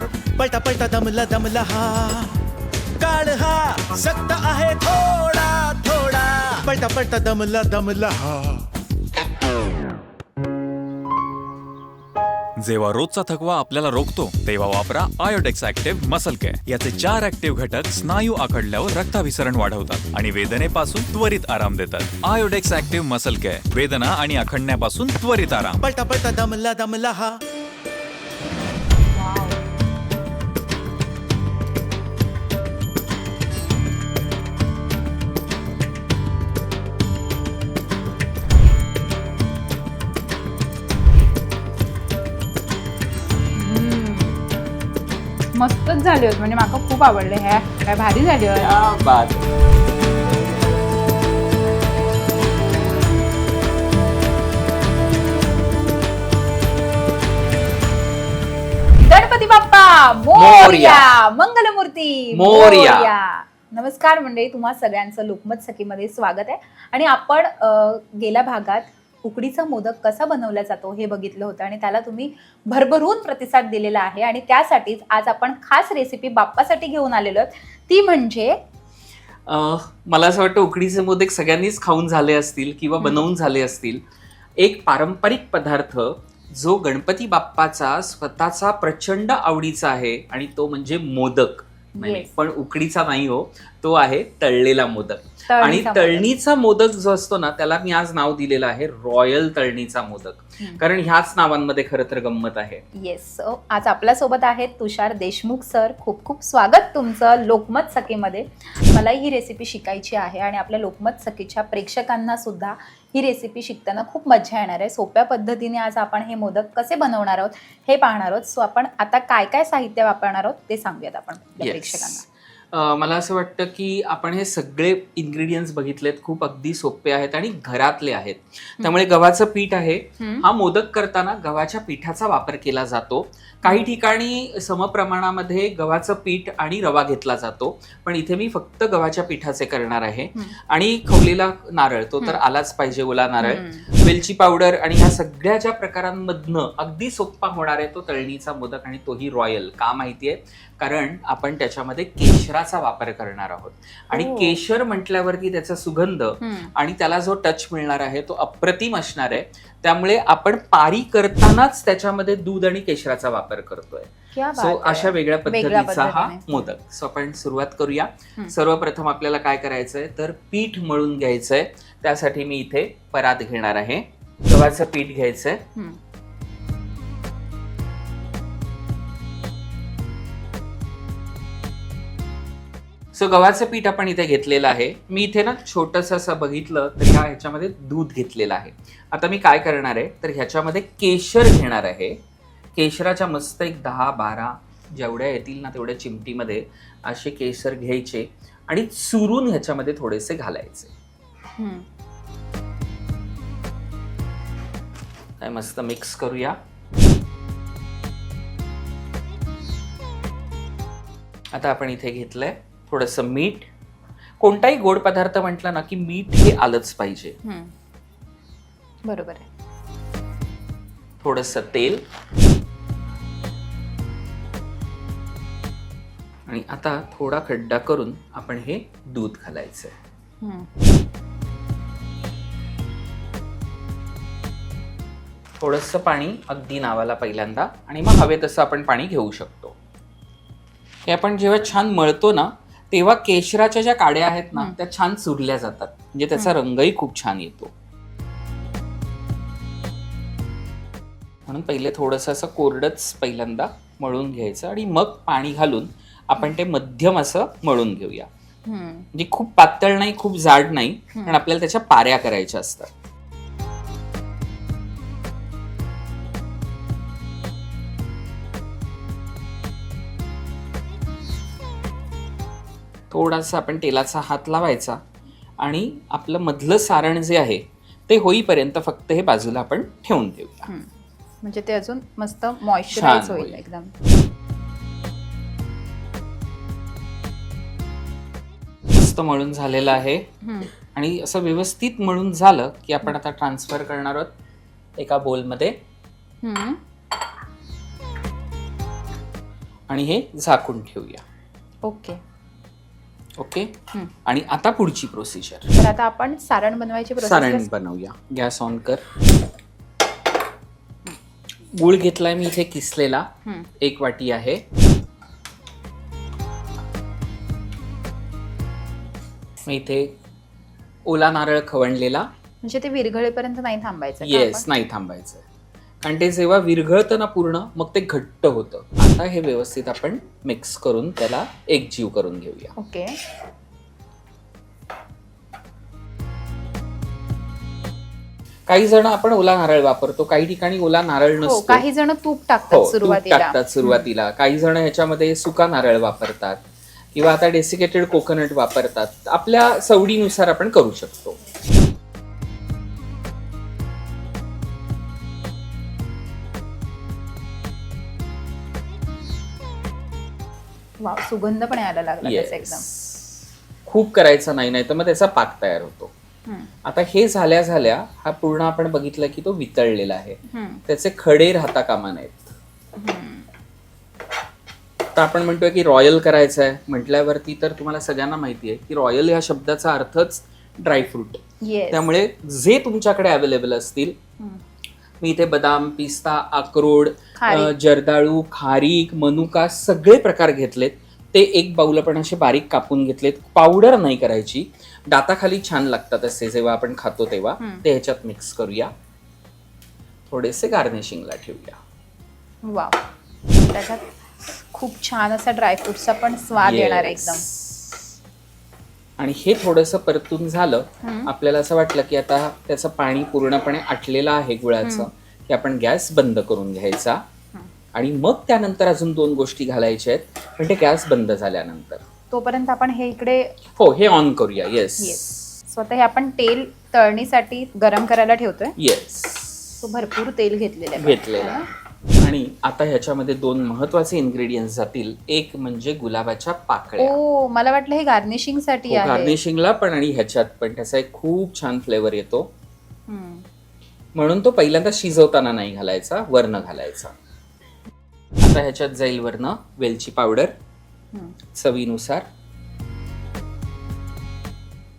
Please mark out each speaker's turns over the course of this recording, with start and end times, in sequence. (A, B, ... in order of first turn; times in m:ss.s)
0:00.4-0:02.3 A
0:03.0-0:08.6 A
0:12.6-0:25.8 B
0:25.8-0:27.3 A
0:29.1-0:29.6 C
0:43.5-0:44.5 C
0:45.5-0:48.8 C
0:48.6-0:49.5 D
0:59.0-1:18.6 C
1:00.3-1:01.1 D
1:02.3-1:03.1 D
1:19.5-1:24.0 D
1:23.0-1:23.3 C
1:24.6-1:42.8 D
1:32.0-1:32.3 C
1:35.5-1:36.3 C
1:43.0-2:02.2 C
2:01.6-2:55.6 D
2:10.2-2:10.5 C
2:23.4-2:23.9 C
2:34.1-2:34.6 C
2:36.4-2:36.7 C
2:44.3-2:46.7 C
3:03.1-3:12.2 D
3:12.8-3:20.9 D
3:21.6-3:21.9 C
3:25.4-3:26.6 D
3:31.5-3:33.7 D
3:34.4-3:37.4 D
3:37.4-3:37.7 C
3:39.1-3:39.5 C
3:41.2-3:42.0 D
3:46.5-3:49.9 D
3:50.4-3:50.7 C
3:55.6-3:59.8 D
4:01.1-4:07.7 D
4:11.5-4:18.3 D
4:18.7-4:19.1 C
4:19.1-4:22.9 D
4:21.2-4:21.4 C
4:33.1-4:35.0 D
4:35.6-4:40.7 D
4:41.4-4:43.9 C
4:42.9-4:43.6 D
4:48.9-4:50.2 D
4:50.4-4:50.7 C
4:50.9-4:54.3 D
4:55.0-4:55.8 D
4:56.4-4:56.8 C
4:59.9-5:01.2 D
5:01.8-5:02.2 C
5:03.4-5:03.7 D
5:04.2-5:05.7 D
5:05.7-5:07.7 C
5:07.2-5:09.0 D
5:11.7-5:13.3 D
5:13.8-5:14.6 D
5:19.7-5:20.1 D
5:21.1-5:22.3 D
5:22.6-5:24.7 C
5:24.2-5:25.4 D
5:26.0-5:32.7 D
5:32.8-5:33.2 C
5:38.7-5:41.8 D
5:41.4-5:44.1 C
5:42.7-5:51.4 D
6:01.0-6:02.9 C
6:02.2-6:06.1 D
6:06.8-6:12.6 D
6:10.5-6:10.8 C
6:13.0-6:13.5 C
6:15.1-6:21.4 D
6:21.6-6:22.1 C
6:21.9-6:24.2 D
6:25.2-6:38.9 D
6:27.4-6:27.7 C
6:40.3-6:41.8 D
6:42.7-6:47.4 C
6:46.6-6:48.1 D
6:49.2-6:57.2 D
6:51.0-6:51.3 C
6:54.8-6:55.1 C
6:58.0-7:02.0 D
7:02.3-7:03.6 C
7:03.8-7:05.5 D
7:05.0-7:08.8 C
7:08.8-7:09.8 D
7:09.8-7:11.7 C
7:11.0-7:11.7 D
7:12.2-7:17.2 D
7:17.0-7:19.4 C
7:18.9-7:22.5 D
7:23.1-7:23.4 C
7:24.2-7:27.1 D
7:28.4-7:30.5 D
7:31.6-7:32.2 D